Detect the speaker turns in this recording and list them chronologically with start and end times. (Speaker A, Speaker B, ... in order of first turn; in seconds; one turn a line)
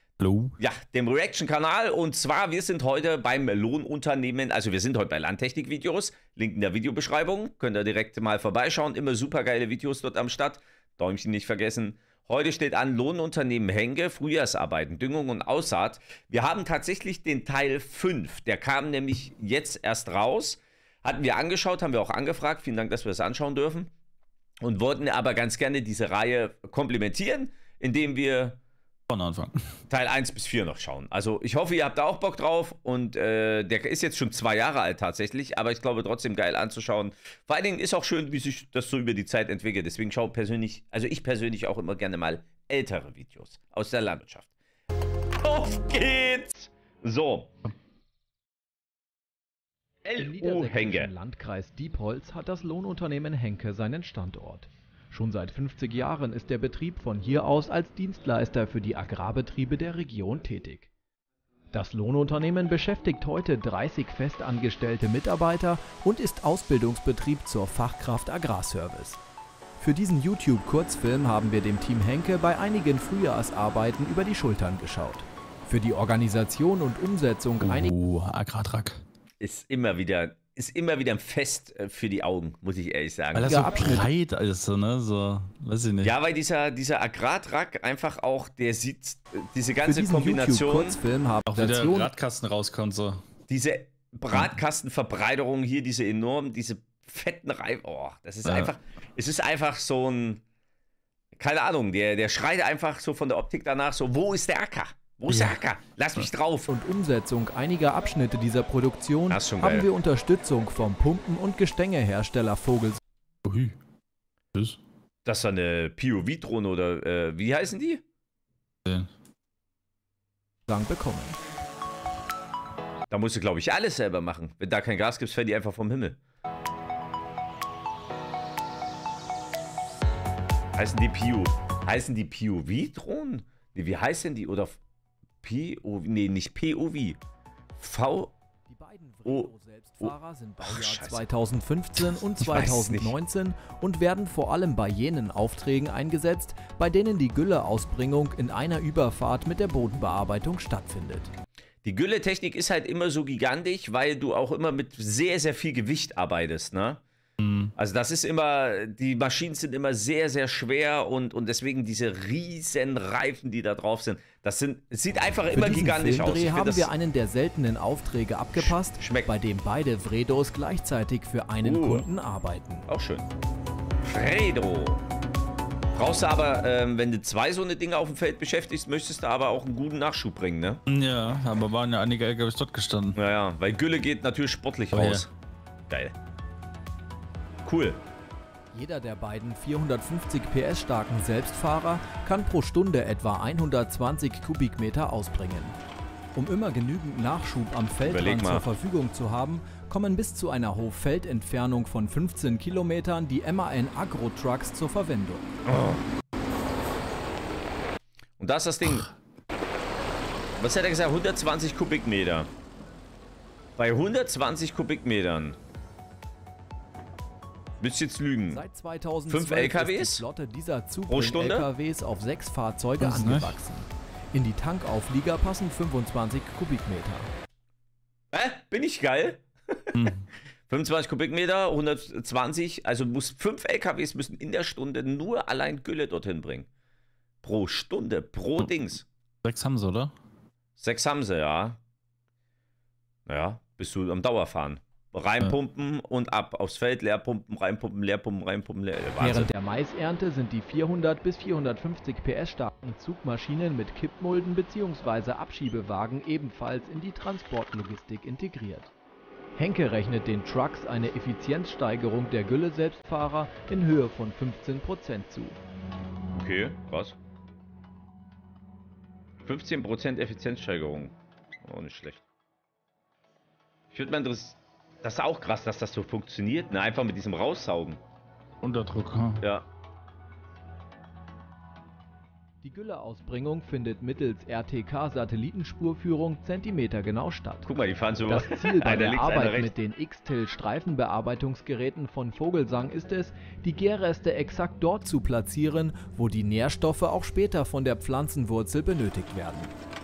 Speaker A: 0.2-0.6
Speaker B: 0.6-23.9
Speaker B: 24.6-28.6
Speaker A: 29.1-29.6
Speaker B: 29.9-44.5
Speaker B: 45.4-47.5
Speaker B: 50.0-51.1
Speaker C: 50.1-60.9
Speaker C: 61.7-69.2
Speaker C: 69.8-77.9
Speaker A: 77.6-79.0
Speaker B: 79.4-83.7
Speaker A: 83.3-86.1
Speaker C: 83.5-84.1
Speaker B: 86.0-91.0
Speaker C: 89.8-92.1
Speaker A: 91.5-93.2
Speaker B: 93.5-100.4
Speaker A: 98.4-98.7
Speaker B: 101.4-106.7
Speaker A: 105.3-105.6
Speaker C: 106.7-113.0
Speaker B: 109.3-109.9
Speaker A: 113.4-113.8
Speaker B: 115.2-118.0
Speaker C: 120.7-121.4
Speaker B: 123.1-126.2
Speaker B: 130.8-134.8
Speaker B: 135.4-137.2
Speaker B: 137.8-138.3
Speaker C: 138.7-151.3
Speaker B: 140.0-141.3
Speaker B: 142.4-143.1
Speaker B: 151.8-157.0
Speaker A: 157.4-157.7
Speaker B: 157.8-166.9
Speaker C: 165.5-172.9
Speaker B: 168.5-169.3
Speaker B: 171.6-172.0
Speaker B: 172.8-173.2
Speaker B: 174.0-175.0
Speaker B: 175.9-180.8
Speaker A: 180.9-183.2
Speaker B: 183.1-185.3
Speaker A: 184.9-185.2
Speaker B: 187.6-188.0
Speaker C: 188.7-195.8
Speaker C: 196.3-205.5
Speaker B: 198.0-198.7
Speaker B: 205.7-206.0
Speaker B: 208.4-209.1
Speaker B: 210.6-212.5
Speaker B: 213.8-215.6
Speaker B: 217.8-218.6
Speaker C: 218.5-227.3
Speaker B: 219.3-220.2
Speaker B: 221.1-221.7
Speaker A: 223.0-223.6
Speaker B: 228.3-230.0
Speaker A: 229.9-230.3
Speaker B: 230.7-236.7
Speaker B: 237.4-239.1
Speaker A: 239.4-240.1
Speaker B: 240.8-241.8
Speaker B: 243.3-249.5
Speaker C: 249.2-258.9
Speaker C: 259.6-265.6
Speaker B: 266.3-267.2
Speaker B: 269.4-272.2
Speaker B: 273.9-278.0
Speaker A: 278.6-279.4
Speaker B: 279.4-279.6
Speaker C: 282.6-287.7
Speaker B: 287.6-289.7
Speaker C: 288.3-299.7